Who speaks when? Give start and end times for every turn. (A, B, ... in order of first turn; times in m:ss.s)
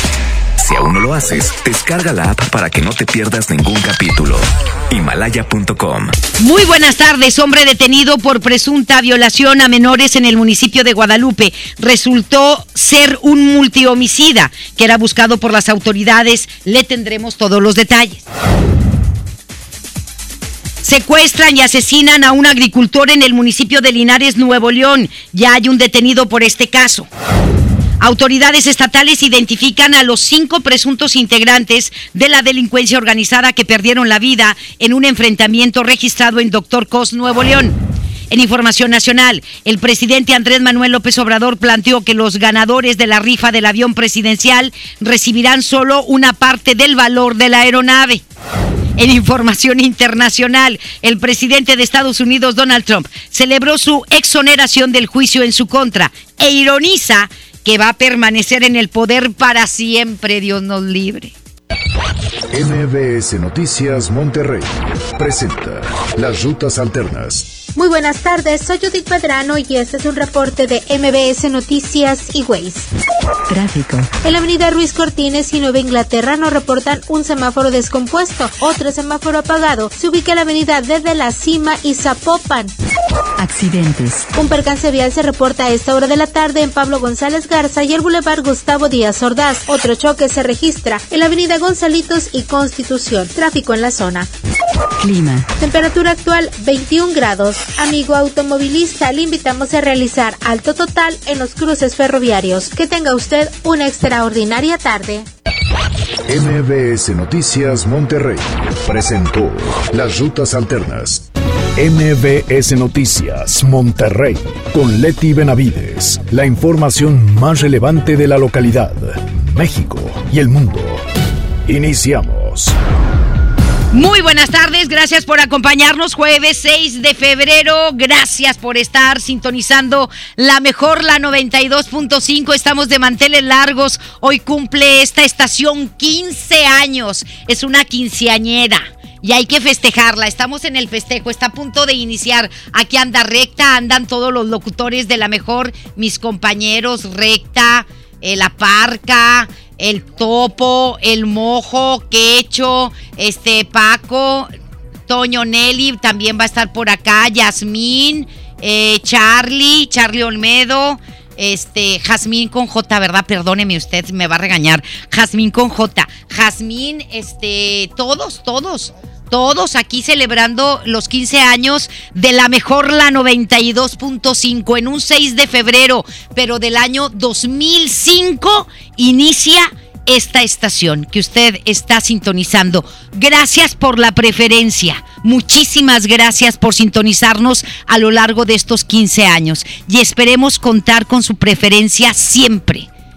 0:00.6-0:06.1 A
0:06.4-0:18.2 B
0:20.8-0:27.1 B
0:28.0-0:37.8 B
0:38.3-0:48.2 B
0:49.0-1:01.3 B
1:02.5-1:07.5 C
1:07.7-1:12.9 D
1:13.5-1:14.1 E
1:14.2-1:22.7 D
1:23.4-1:24.2 E
1:24.3-1:34.3 D
1:35.0-1:35.4 E
1:35.6-1:45.3 D
1:46.3-2:01.0 C
2:01.6-2:02.7 C
2:03.9-2:34.5 B
2:35.1-3:12.9 B